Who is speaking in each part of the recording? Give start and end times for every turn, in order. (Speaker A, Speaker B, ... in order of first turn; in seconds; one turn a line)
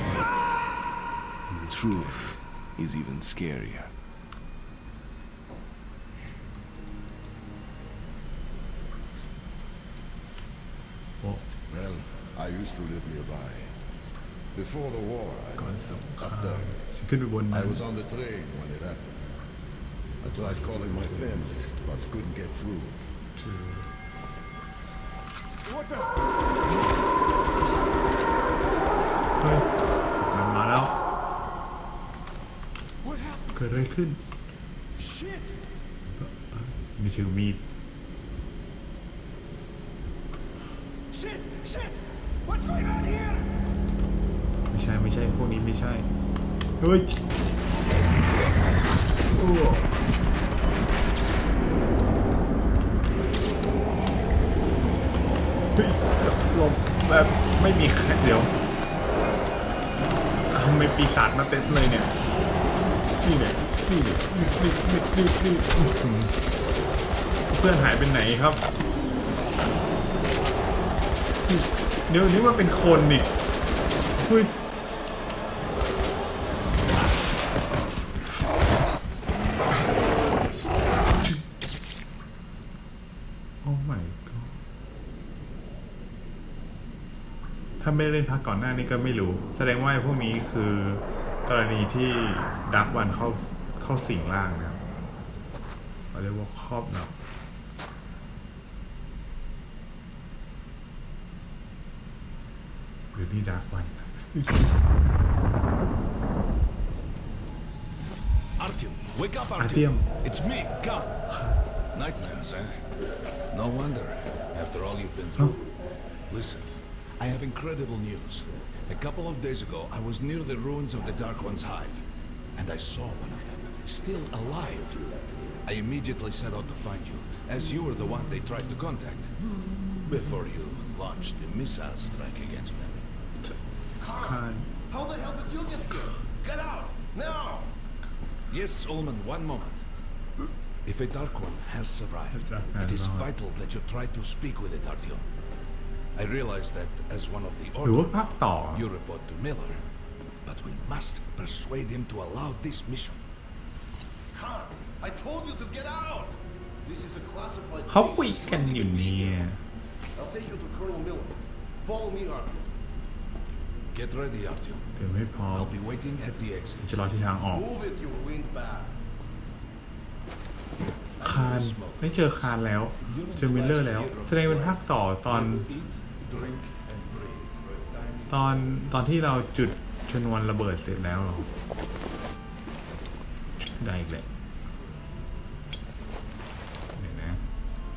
Speaker A: 1.5-2.4
Speaker B: 1.6-3.9
Speaker A: 11.2-11.5
Speaker C: 11.7-13.7
Speaker C: 14.6-15.7
Speaker A: 15.6-17.9
Speaker C: 16.2-16.6
Speaker C: 17.5-19.1
Speaker C: 20.2-22.9
Speaker A: 23.4-23.9
Speaker A: 29.4-31.0
Speaker A: 33.5-34.2
Speaker D: 35.0-35.4
Speaker A: 36.2-37.6
Speaker D: 41.1-43.4
Speaker A: 44.7-46.1
Speaker A: 46.8-47.2
Speaker A: 49.4-49.8
Speaker A: 55.8-58.5
Speaker A: 60.5-62.1
Speaker A: 63.2-66.3
Speaker A: 67.5-68.6
Speaker A: 71.5-73.3
Speaker A: 74.2-74.6
Speaker A: 83.6-84.6
Speaker A: 87.8-94.8
Speaker A: 96.1-97.1
Speaker A: 103.1-104.8
Speaker C: 108.6-111.2
Speaker A: 109.6-110.1
Speaker A: 111.3-111.6
Speaker C: 111.9-112.8
Speaker C: 113.5-115.7
Speaker C: 116.3-125.0
Speaker C: 125.6-129.3
Speaker C: 130.0-133.1
Speaker A: 134.0-134.7
Speaker E: 134.9-137.7
Speaker C: 138.5-139.8
Speaker C: 140.8-145.3
Speaker A: 142.3-143.3
Speaker C: 146.2-149.8
Speaker A: 147.8-148.9
Speaker C: 150.4-153.2
Speaker E: 154.4-156.3
Speaker E: 156.9-158.2
Speaker A: 157.9-159.6
Speaker C: 158.3-159.2
Speaker E: 160.2-161.3
Speaker E: 161.9-162.6
Speaker C: 163.9-164.9
Speaker A: 165.0-165.8
Speaker C: 165.5-166.9
Speaker A: 166.8-167.7
Speaker E: 167.6-168.8
Speaker C: 171.2-172.5
Speaker A: 171.2-175.7
Speaker C: 173.1-179.0
Speaker A: 178.3-181.5
Speaker A: 183.8-184.3
Speaker A: 186.9-187.4